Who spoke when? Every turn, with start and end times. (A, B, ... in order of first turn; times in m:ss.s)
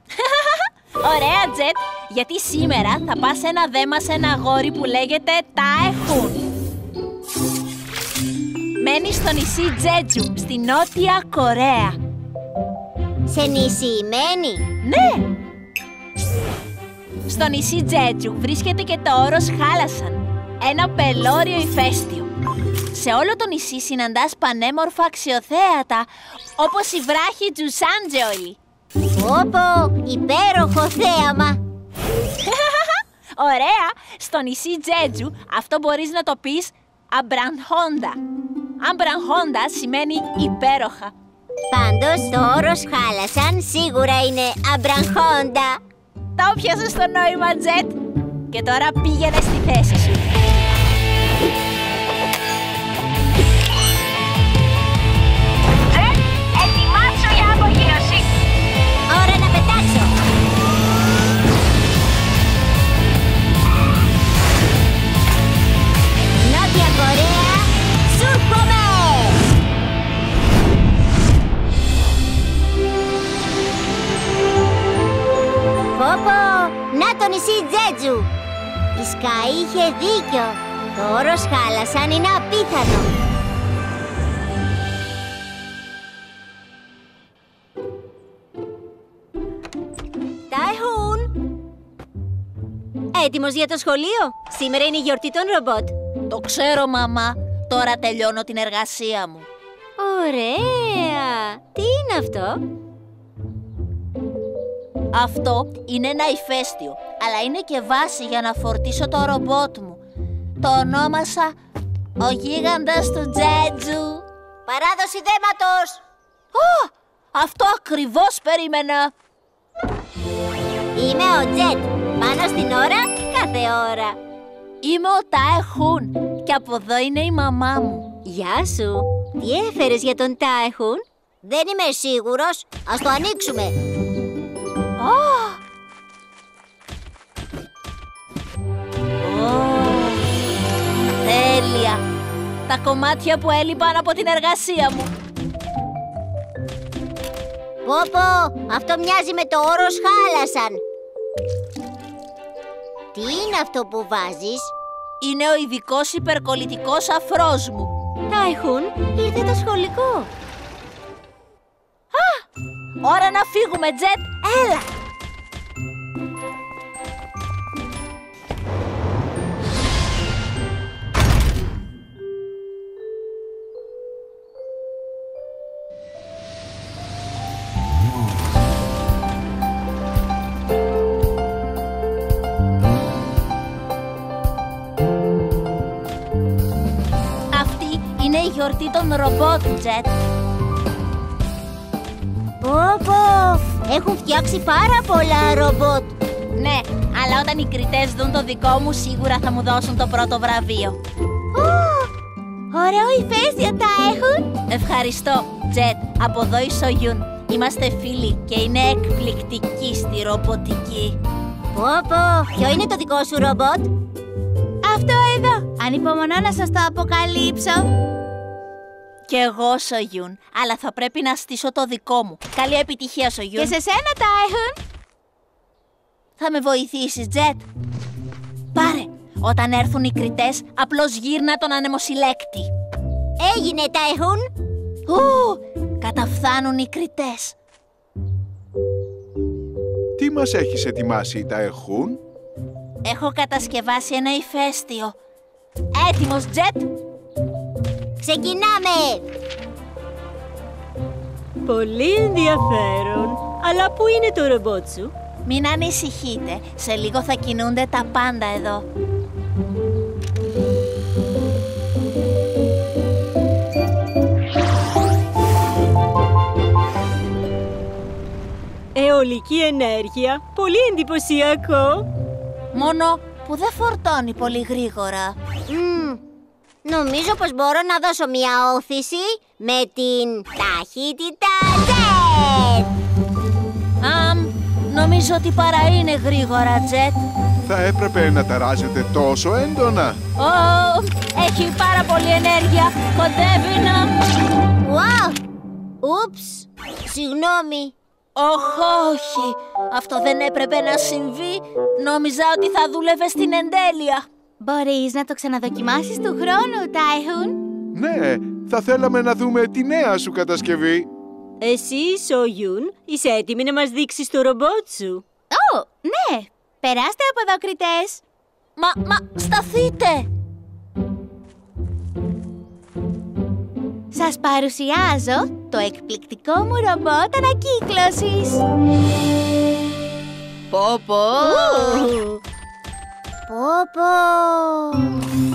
0:00.2-0:06.4 A
0:08.8-0:12.0 A
0:13.3-0:14.6 B
0:14.8-0:15.3 A
0:17.3-0:22.3 A
0:22.9-0:28.6 A
0:29.2-0:31.6 B
0:32.4-0:38.2 A
0:38.8-0:41.1 A
0:41.7-0:45.8 B
0:46.4-0:48.0 A
0:48.5-0:50.3 A
0:55.9-0:58.3 A
0:59.1-1:00.1 B
1:06.4-1:09.4 B
1:15.8-1:18.3 B
1:19.0-1:23.1 B
1:30.5-1:31.3 B
1:33.1-1:35.9 B
1:36.3-1:39.5 A
1:40.0-1:42.6 B
1:45.1-1:50.0 A
1:50.6-1:51.5 A
1:52.2-1:54.2 A
1:54.7-1:56.0 B
1:56.5-1:59.1 A
2:00.9-2:04.2 B
2:04.8-2:08.1 A
2:08.2-2:13.7 B
2:15.0-2:15.6 A
2:19.2-2:20.2 A
2:21.2-2:22.0 A
2:22.7-2:25.1 A
2:27.8-2:30.8 B
2:33.1-2:34.7 B
2:35.2-2:37.9 A
2:38.3-2:39.6 B
2:38.3-2:40.2 C
2:42.1-2:42.4 A
2:43.0-2:44.9 A
3:07.5-3:10.1 A
3:12.6-3:16.1 B
3:16.5-3:21.0 A
3:21.5-3:22.1 D
3:22.7-3:24.5 D
3:24.7-3:31.2 A
3:31.7-3:33.9 B
3:34.8-3:37.9 D
3:39.2-3:43.7 A
3:43.5-3:44.8 D
3:46.4-3:47.6 A
3:48.7-3:52.7 A
3:53.4-3:54.4 B
3:55.1-3:57.6 A
4:00.2-4:02.2 E
4:03.0-4:05.2 A
4:05.9-4:06.9 A
4:08.2-4:09.2 B
4:11.6-4:15.1 C
4:15.4-4:18.9 A
4:28.9-4:32.1 C
4:32.7-4:35.4 A
4:35.7-4:36.2 B
4:36.8-4:42.9 B
4:44.0-4:47.2 A
4:47.6-4:50.2 E
4:50.4-4:54.3 A
4:54.8-4:55.4 B
4:56.0-4:57.9 B
4:58.3-5:04.2 A
5:04.6-5:07.6 D
5:07.9-5:11.1 E
5:11.6-5:15.2 C
5:15.5-5:18.2 D
5:18.8-5:20.3 A
5:24.1-5:28.6 D
5:30.7-5:32.1 A
5:31.4-5:32.0 B
5:31.4-5:32.0 D
5:33.5-5:35.2 B